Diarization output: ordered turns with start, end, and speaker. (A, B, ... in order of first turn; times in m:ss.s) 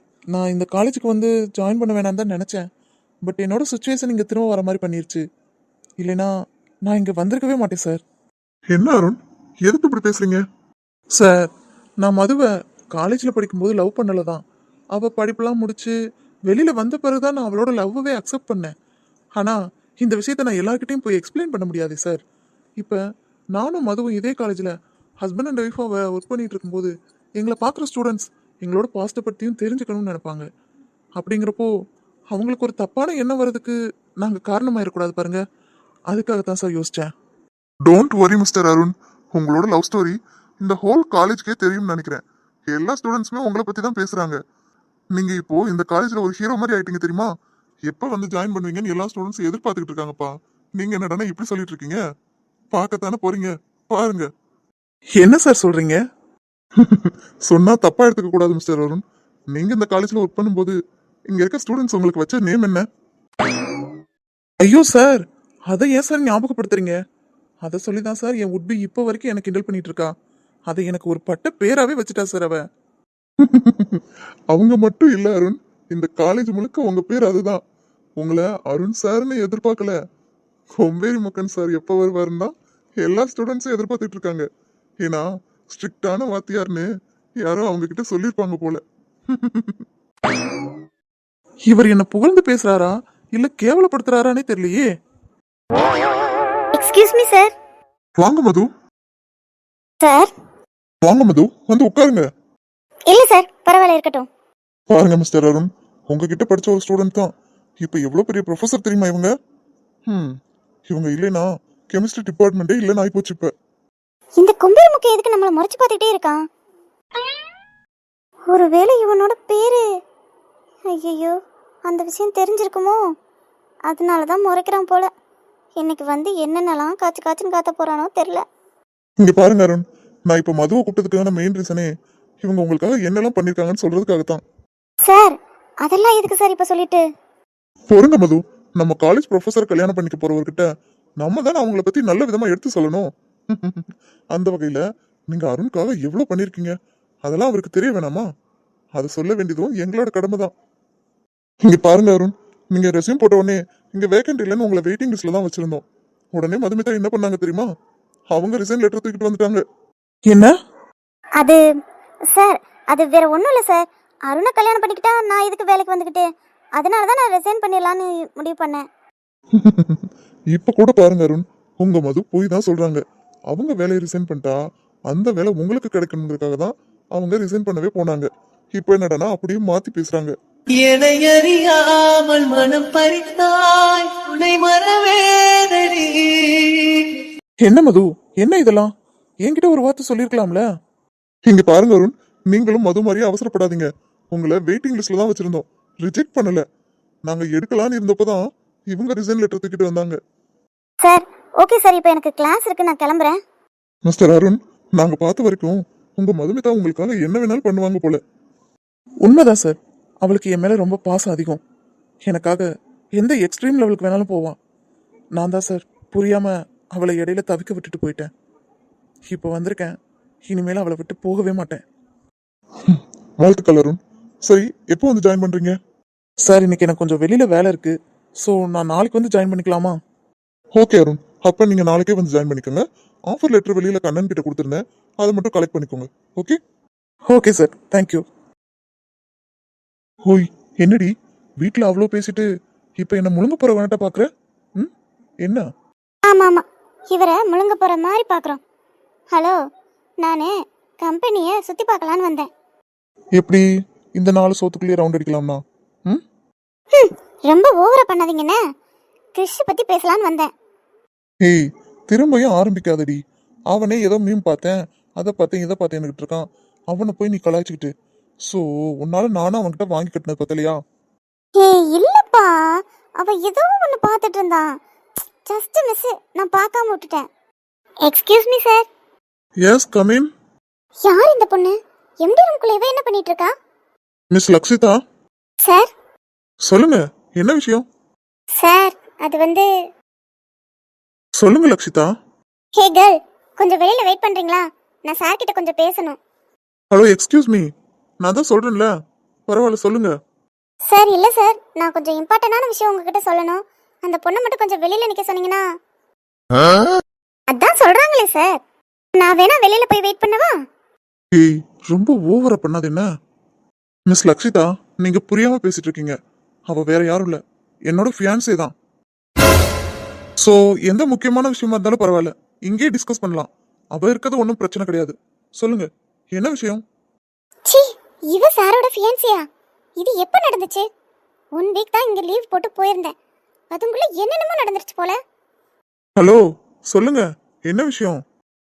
0:00.3-0:02.6 A
0:03.2-0:05.2 A
0:06.0-0:06.3 A
0:06.8-0:08.0 A
0:08.7-0:10.4 B
0:11.1-0:11.5 A
0:12.0-0:14.4 A
0:14.9-0:15.9 A
0:16.5-0:18.7 A
0:19.4-0:22.2 A
0:23.6-0:30.4 A
0:31.2-0:31.7 A
0:32.3-0:35.4 A
0:36.1-0:37.1 A
0:37.9-0:44.4 B
0:45.1-0:47.3 B
0:47.9-0:52.0 B
0:52.7-0:54.3 B
0:55.2-0:56.0 A
0:56.8-1:00.8 B
1:01.3-1:02.9 B
1:04.6-1:07.0 A
1:07.6-1:10.1 A
1:10.7-1:12.6 A
1:13.4-1:17.6 B
1:18.2-1:20.0 B
1:20.8-1:24.5 B
1:25.0-1:26.9 B
1:27.4-1:29.8 B
1:31.7-1:34.9 A
1:36.7-1:37.5 C
1:38.2-1:38.7 B
1:40.0-1:40.3 C
1:41.0-1:42.3 B
1:43.1-1:44.3 C
1:44.9-1:49.3 B
1:50.1-1:50.4 B
1:50.9-1:53.5 B
1:54.4-1:56.4 C
1:58.5-1:59.8 C
2:00.9-2:03.0 C
2:03.9-2:05.1 C
2:05.8-2:08.4 C
2:09.2-2:11.9 B
2:12.4-2:14.4 B
2:15.0-2:17.0 C
2:17.9-2:20.7 B
2:21.2-2:28.3 B
2:29.0-2:30.5 B
2:31.6-2:37.7 B
2:38.3-2:39.6 B
2:40.3-2:40.5 A
2:42.3-2:46.3 C
2:46.8-2:48.8 C
2:49.5-3:00.3 B
3:00.8-3:07.2 D
3:07.6-3:08.9 A
3:09.4-3:10.6 A
3:11.5-3:16.6 B
3:17.3-3:20.2 B
3:21.0-3:23.4 C
3:24.1-3:28.2 B
3:29.2-3:31.6 A
3:32.3-3:34.6 A
3:35.4-3:38.3 A
3:39.3-3:40.0 A
3:40.5-3:41.8 A
3:42.8-3:45.8 B
3:46.4-3:50.0 A
3:50.8-3:56.6 B
3:57.3-3:58.2 A
4:00.2-4:02.5 B
4:03.0-4:04.9 B
4:06.3-4:08.6 C
4:09.3-4:09.6 C
4:10.2-4:12.5 C
4:13.4-4:13.6 B
4:14.2-4:16.2 B
4:16.9-4:18.6 C
4:19.4-4:20.5 C
4:21.4-4:23.2 B
4:23.7-4:27.9 B
4:28.4-4:30.8 B
4:31.6-4:34.7 C
4:35.4-4:37.3 C
4:38.0-4:38.9 C
4:39.6-4:40.3 B
4:41.0-4:43.5 C
4:44.3-4:45.0 B
4:45.6-4:45.9 C
4:46.6-4:47.8 B
4:48.6-4:49.7 C
4:51.4-4:52.1 B
4:52.8-4:56.2 C
4:56.9-4:57.7 B
4:58.2-4:58.9 B
4:59.5-5:00.2 B
5:00.9-5:05.6 C
5:07.5-5:08.6 C
5:09.2-5:10.6 C
5:11.3-5:13.1 B
5:14.1-5:16.2 B
5:16.7-5:18.7 B
5:20.4-5:26.8 B
5:27.7-5:29.4 C
5:30.0-5:30.8 C
5:31.6-5:33.1 C
5:33.7-5:35.2 C
5:36.2-5:38.2 B